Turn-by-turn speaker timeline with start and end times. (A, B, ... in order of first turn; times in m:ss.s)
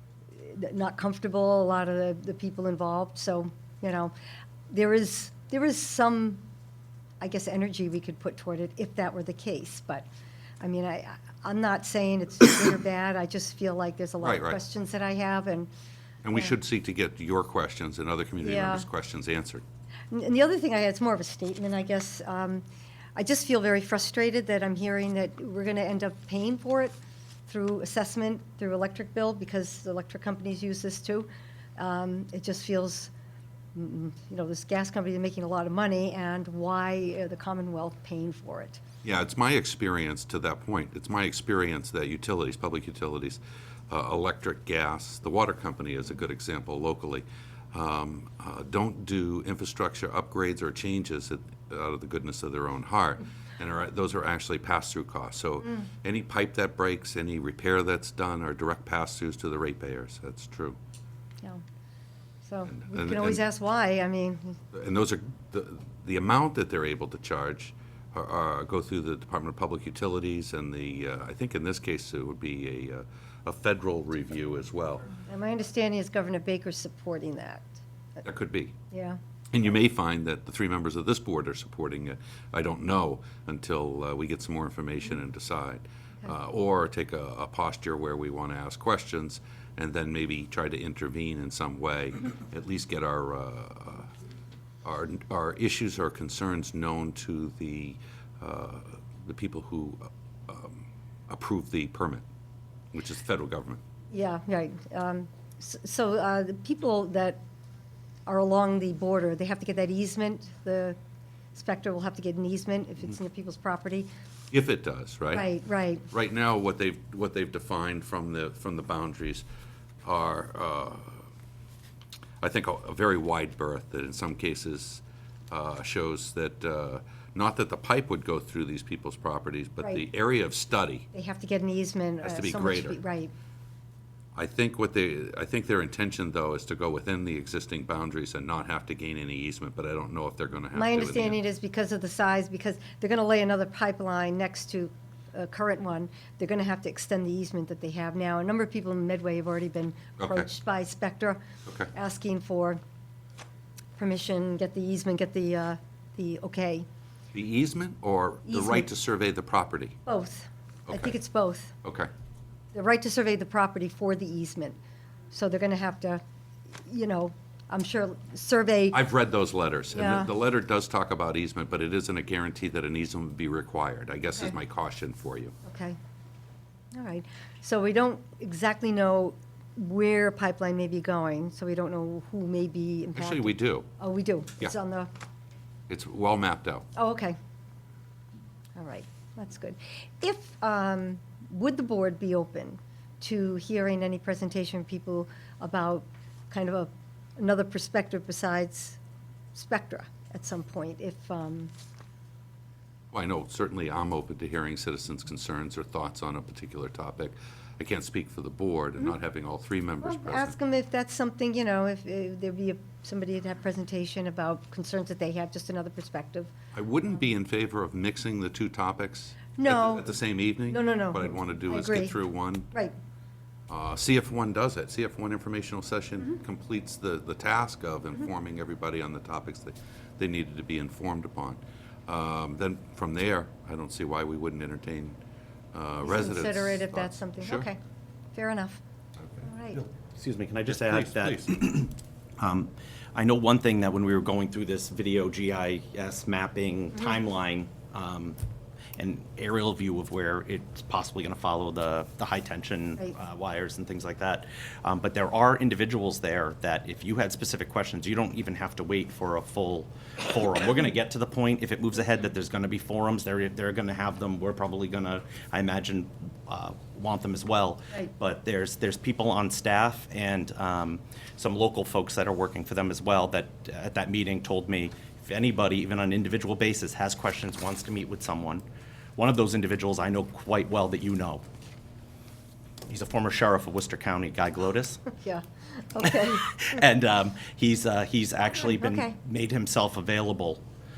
0:00.4-0:04.1 A
0:04.7-0:06.4 A
0:07.2-0:10.1 A
0:10.6-0:15.7 A
0:14.2-0:14.6 B
0:16.2-0:19.6 B
0:18.4-0:18.8 A
0:20.1-0:22.6 A
0:23.2-0:26.9 A
0:27.5-0:33.1 A
0:33.8-0:38.8 A
0:39.0-0:43.4 B
0:43.9-1:00.8 B
1:02.4-1:04.6 A
1:02.7-1:03.4 B
1:04.7-1:15.1 B
1:15.3-1:17.8 A
1:18.2-1:18.7 B
1:18.9-1:19.2 A
1:19.5-1:34.1 B
1:34.8-1:42.2 B
1:42.9-1:43.8 B
1:44.1-1:47.4 A
1:48.3-1:51.0 A
1:51.5-1:54.1 A
1:54.5-1:55.5 B
1:55.3-1:56.1 A
1:56.1-1:59.4 B
2:00.0-2:01.2 B
2:02.4-2:11.1 B
2:11.1-2:13.3 A
2:12.2-2:13.0 B
2:14.4-2:21.4 B
2:20.7-2:32.8 A
2:30.2-2:30.5 B
2:34.0-2:36.9 A
2:37.3-2:40.0 B
2:38.5-2:38.9 A
2:40.1-2:41.8 A
2:40.9-2:41.1 B
2:41.8-2:42.1 B
2:42.7-2:44.8 A
2:45.3-2:46.2 A
2:46.8-2:49.0 A
2:48.9-2:55.5 B
2:49.9-2:50.3 A
2:55.6-2:56.0 A
2:56.9-3:05.1 A
3:03.2-3:03.9 B
3:05.9-3:06.9 B
3:07.0-3:07.4 A
3:08.8-3:19.0 A
3:19.5-3:21.7 A
3:23.1-3:30.6 B
3:30.0-3:36.5 A
3:36.7-3:42.7 B
3:39.6-3:40.1 A
3:40.7-3:42.1 A
3:43.7-3:55.2 B
3:55.7-3:57.7 B
3:56.0-3:57.8 A
3:58.3-3:58.8 A
3:59.4-3:59.8 A
4:00.1-4:08.4 C
4:00.7-4:01.5 B
4:09.0-4:38.6 C
4:39.2-4:41.4 C
4:42.9-4:45.0 C
4:45.1-4:46.5 A
4:46.0-4:50.6 C
4:48.6-4:49.2 A